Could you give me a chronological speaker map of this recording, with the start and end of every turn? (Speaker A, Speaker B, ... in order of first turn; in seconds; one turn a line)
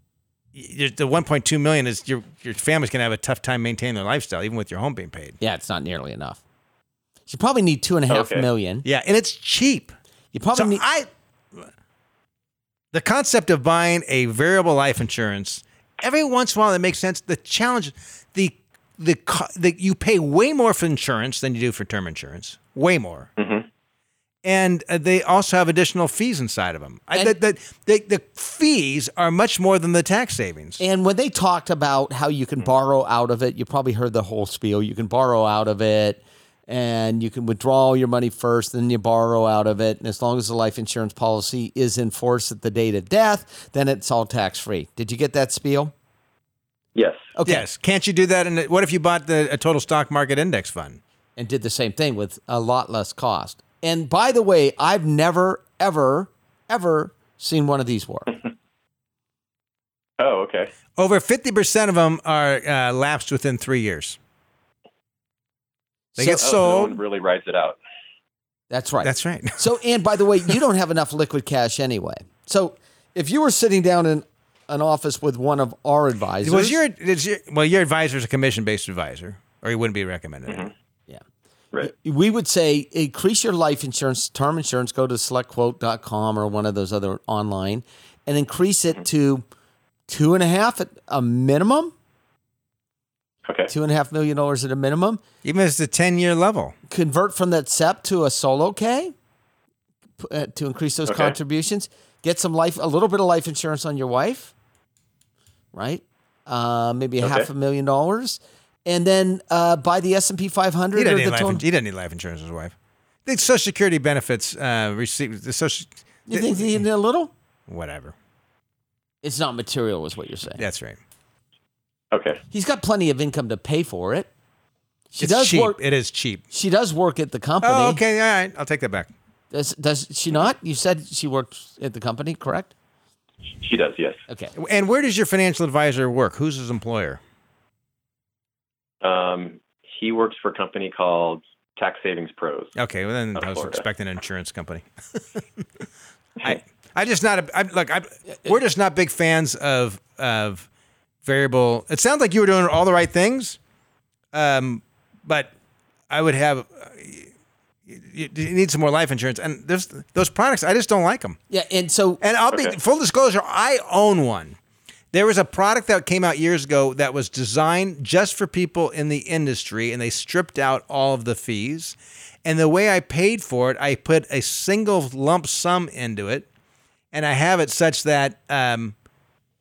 Speaker A: 0.6-5.4
Speaker B: 5.4-6.4
Speaker B: 7.3-8.9
Speaker C: 8.1-8.5
Speaker A: 8.8-9.9
Speaker B: 10.3-10.8
Speaker A: 10.6-11.1
Speaker A: 12.9-23.3
Speaker C: 23.4-23.7
Speaker A: 24.4-30.8
Speaker B: 30.8-45.9
Speaker C: 47.0-47.3
Speaker B: 47.4-47.7
Speaker A: 47.5-51.0
Speaker B: 51.4-58.3
Speaker C: 60.2-60.7
Speaker A: 61.0-64.2
Speaker A: 66.2-67.0
Speaker B: 66.2-66.5
Speaker C: 66.2-67.8
Speaker B: 68.7-76.8
Speaker A: 69.0-69.7
Speaker A: 76.4-80.7
Speaker B: 81.8-89.5
Speaker B: 90.1-91.9
Speaker C: 93.5-93.7
Speaker B: 93.7-95.2
Speaker A: 95.4-96.8
Speaker B: 96.9-99.1
Speaker B: 100.2-104.5
Speaker C: 101.1-101.3
Speaker B: 105.7-111.6
Speaker C: 107.2-107.5
Speaker A: 111.0-112.7
Speaker A: 113.2-116.8
Speaker B: 116.3-117.3
Speaker A: 117.7-118.1
Speaker B: 119.2-120.6
Speaker A: 120.6-121.0
Speaker C: 122.1-122.4
Speaker B: 122.5-124.3
Speaker B: 125.1-125.8
Speaker A: 125.2-126.4
Speaker B: 126.5-128.0
Speaker A: 127.6-129.1
Speaker B: 129.5-132.7
Speaker C: 133.6-134.2
Speaker B: 134.3-134.5
Speaker A: 134.6-137.2
Speaker C: 139.0-142.7
Speaker A: 142.8-145.4
Speaker C: 143.3-143.8
Speaker A: 146.4-150.7
Speaker A: 151.2-153.6
Speaker A: 154.3-155.5
Speaker A: 156.1-157.3
Speaker A: 157.9-161.4
Speaker B: 161.5-162.2
Speaker A: 162.2-164.6
Speaker C: 162.5-162.8
Speaker A: 165.1-176.5
Speaker A: 177.1-178.9